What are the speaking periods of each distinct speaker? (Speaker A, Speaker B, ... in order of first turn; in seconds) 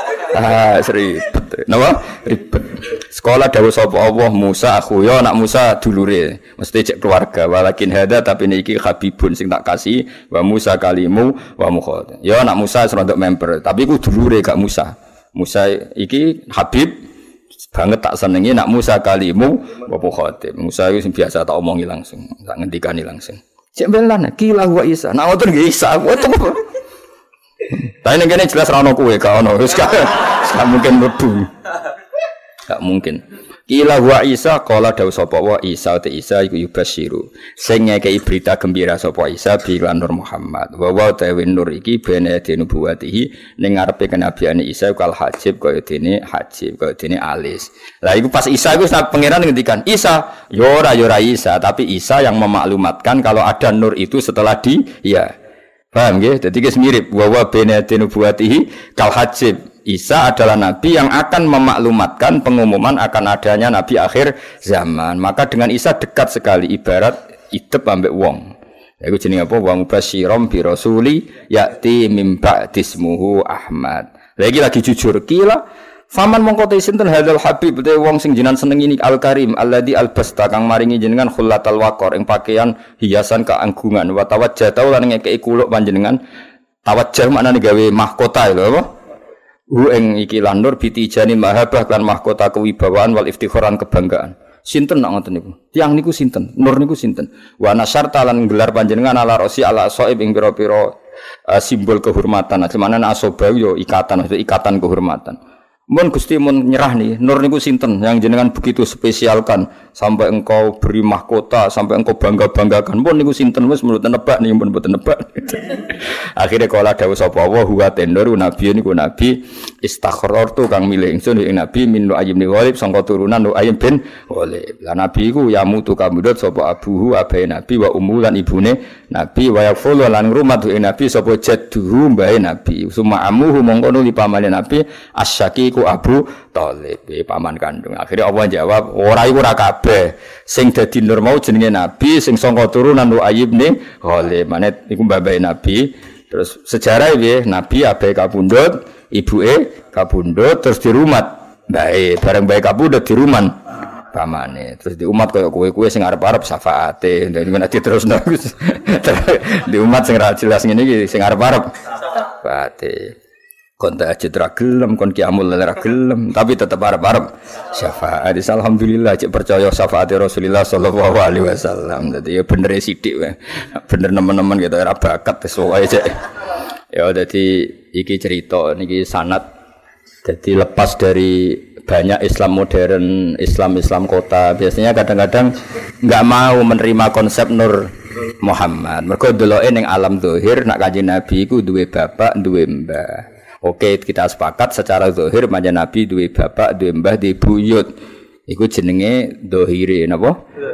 Speaker A: 0.3-17.0, 17.7-26.6, 27.7-31.5, 32.7-55.3, 55.9-68.4, 69.0-86.2, 86.8-88.9, 89.7-100.9, 101.5-105.4, 105.9-153.6, 154.1-163.1, 163.8-176.3, 176.9-179.4, 180.2-185.5, 186.0-187.9, 188.4-197.9, 198.5-200.3